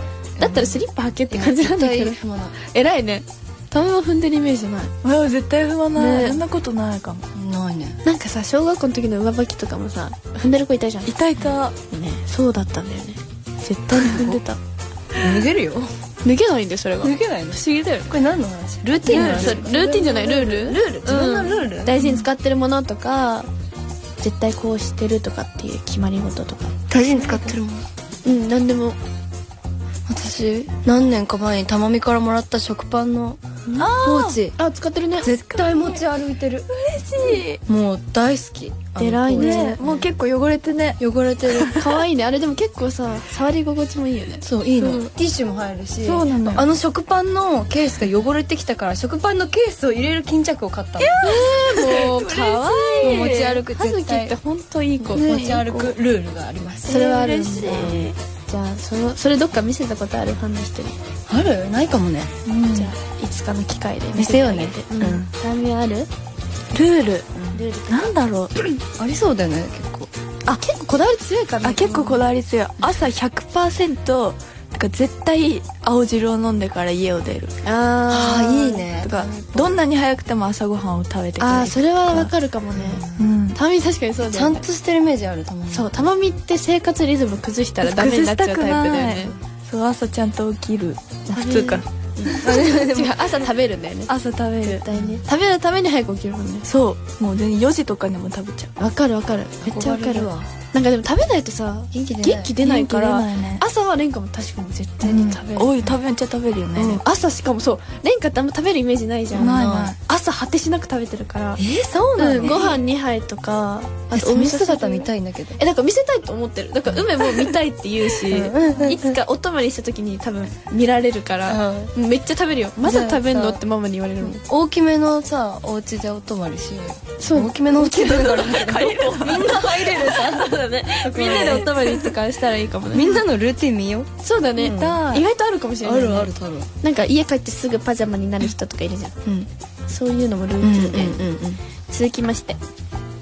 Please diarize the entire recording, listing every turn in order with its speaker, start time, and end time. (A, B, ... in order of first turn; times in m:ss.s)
0:00.4-0:02.5 A
0:00.4-0:04.9 B
0:05.0-0:07.3 C
0:06.0-0:06.4 B
0:07.3-0:08.0 A
0:08.0-0:11.1 B
0:11.0-0:11.8 C
0:11.9-0:14.6 B
0:14.0-0:14.3 C
0:14.0-0:14.4 A
0:15.2-0:15.9 A
0:16.2-0:18.1 B
0:17.0-0:22.0 A
0:19.0-0:23.5 B
0:19.1-0:19.6 C
0:22.0-0:22.2 C
0:24.2-0:26.7 B
0:26.9-0:27.8 A
0:28.2-0:29.0 B
0:30.1-0:34.5 A
0:33.8-0:34.4 C
0:34.6-0:35.3 B
0:35.2-0:36.7 A
0:35.2-0:36.0 C
0:36.7-0:37.6 C
0:37.6-0:40.1 A
0:39.0-0:39.8 B
0:39.4-0:41.9 C
0:41.0-0:41.8 A
0:41.7-0:44.4 B
0:44.4-0:51.1 A
0:44.8-0:45.1 C
0:46.0-0:46.6 C
0:51.0-0:53.6 C
0:51.2-0:55.2 B
0:53.0-0:54.4 A
0:55.0-0:57.1 A
0:55.1-0:55.9 C
0:56.9-0:58.1 C
0:56.9-1:01.0 B
1:01.3-1:02.3 A
1:02.4-1:02.9 C
1:02.7-1:06.1 B
1:04.1-1:05.3 A
1:06.7-1:07.3 C
1:07.4-1:07.6 A
1:07.5-1:08.2 B
1:07.9-1:08.7 C
1:09.0-1:10.1 A
1:10.6-1:12.2 B
1:11.6-1:17.5 C
1:17.6-1:18.8 B
1:18.1-1:19.8 A
1:19.0-1:22.3 C
1:21.4-1:24.6 B
1:22.7-1:23.2 A
1:23.1-1:23.6 C
1:24.2-1:26.0 A
1:25.7-1:29.3 B
1:27.8-1:32.5 C
1:31.3-1:36.7 B
1:32.2-1:33.3 A
1:34.1-1:34.8 C
1:34.9-1:35.2 A
1:36.6-1:38.7 C
1:38.8-1:45.7 B
1:39.6-1:40.5 A
1:41.9-1:42.5 A
1:42.6-1:43.6 C
1:45.0-1:47.0 C
1:46.8-1:51.6 B
1:49.3-1:49.9 A
1:49.3-1:50.0 C
1:51.6-1:52.8 A
1:52.2-2:04.4 B
1:54.1-1:55.6 A
1:56.8-1:57.6 A
1:58.1-1:59.2 A
2:01.4-2:01.9 A
2:02.8-2:03.6 A
2:04.2-2:11.9 A
2:07.2-2:13.2 B
2:08.0-2:10.1 C
2:11.2-2:12.1 C
2:12.9-2:15.0 A
2:14.2-2:16.3 B
2:14.6-2:15.2 C
2:15.8-2:16.7 A
2:16.8-2:19.1 B
2:19.9-2:21.2 B
2:20.6-2:21.6 A
2:21.9-2:22.6 B